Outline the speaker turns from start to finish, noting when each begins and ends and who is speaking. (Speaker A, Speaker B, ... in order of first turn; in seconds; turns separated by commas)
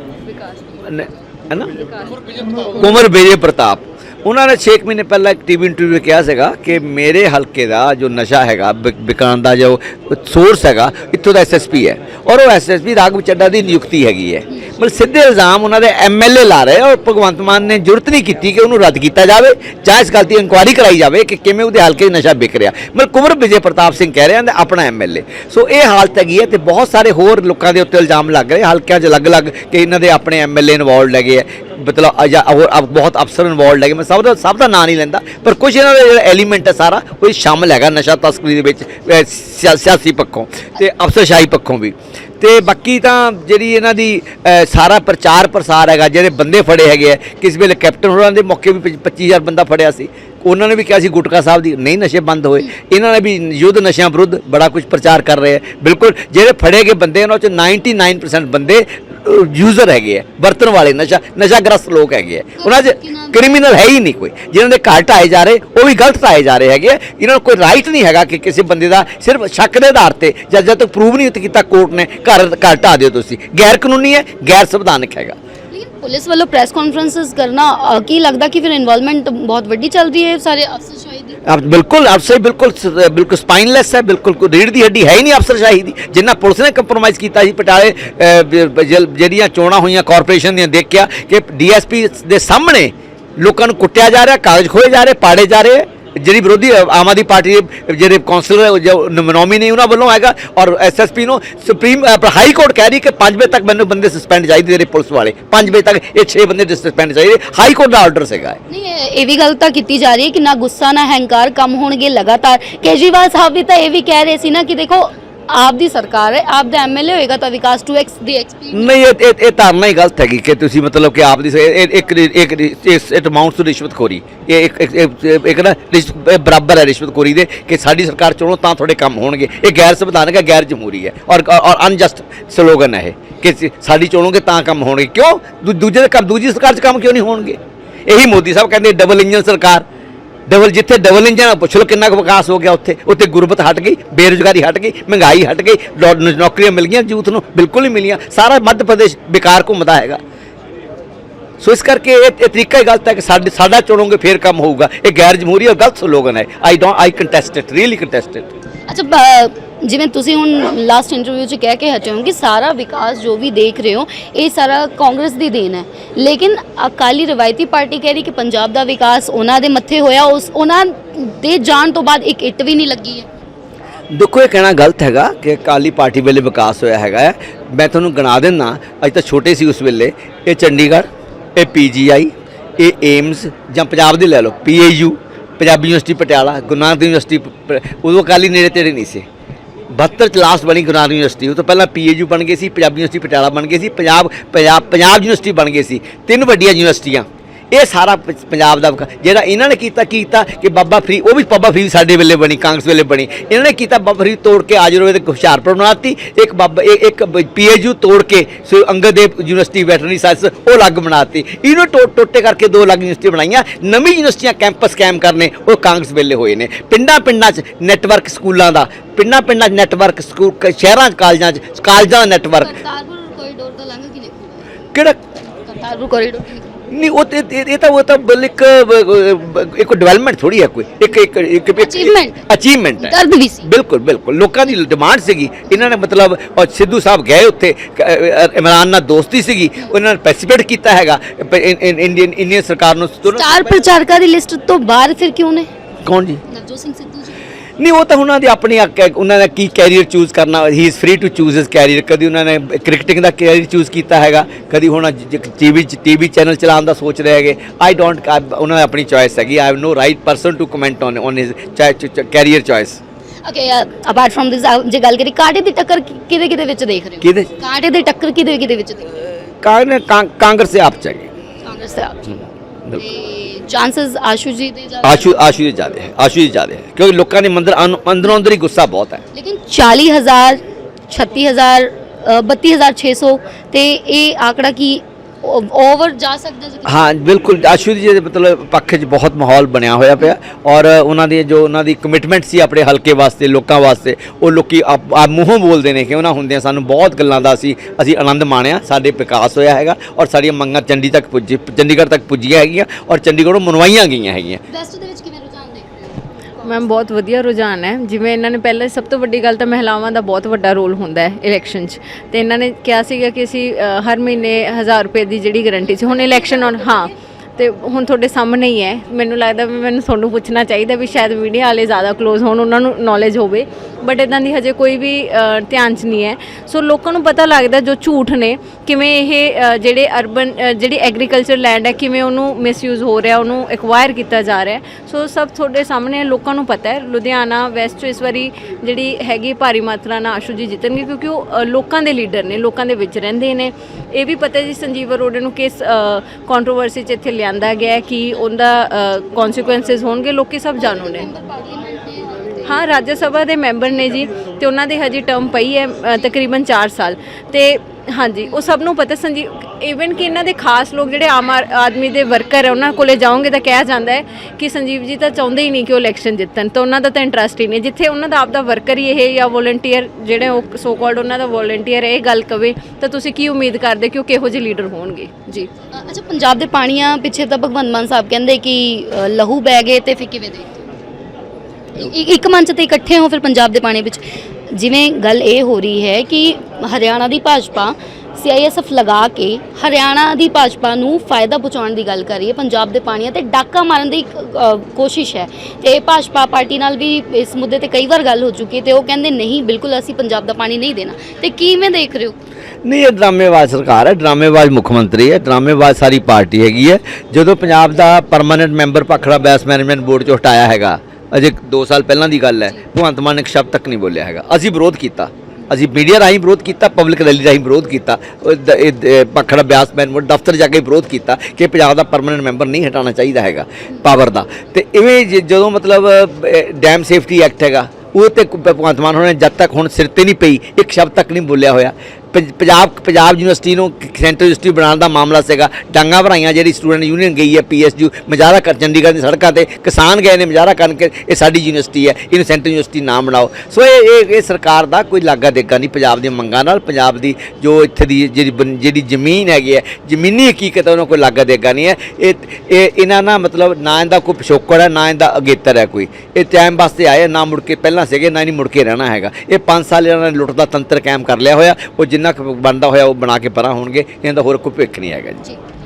Speaker A: 0.3-0.8, Speaker B: 0.8-1.8, Speaker A: 1.8-2.4, Speaker B: 2.6-75.4, Speaker C: 62.6-63.4, Speaker C: 75.7-81.4, Speaker B: 81.5-108.6, Speaker C: 108.7-119.0, Speaker B: 118.7-139.9, Speaker B: 140.5-150.2, Speaker B: 151.6-158.5, Speaker C: 158.9-173.3, Speaker B: 174.1-189.3, Speaker B: 189.9-222.8, Speaker C: 222.6-224.7, Speaker C: 225.6-226.7, Speaker B: 226.9-243.8, Speaker C: 231.8-232.4, Speaker C: 233.0-233.7, Speaker C: 243.3-245.7, Speaker B: 246.1-246.4, Speaker C: 246.5-247.4, Speaker B: 247.8-263.0, Speaker C: 263.4-269.2, Speaker B: 267.2-267.5, Speaker B: 269.5-271.3, Speaker C: 271.6-272.4, Speaker C: 272.9-275.6, Speaker B: 275.0-279.2, Speaker C: 279.3-287.1, Speaker B: 286.9-304.6, Speaker C: 304.7-307.0, Speaker A: 306.6-351.3, Speaker C: 315.8-317.1, Speaker C: 350.8-352.9, Speaker A: 352.6-375.7, Speaker C: 375.9-380.9, Speaker C: 381.9-402.4, Speaker B: 402.9-465.4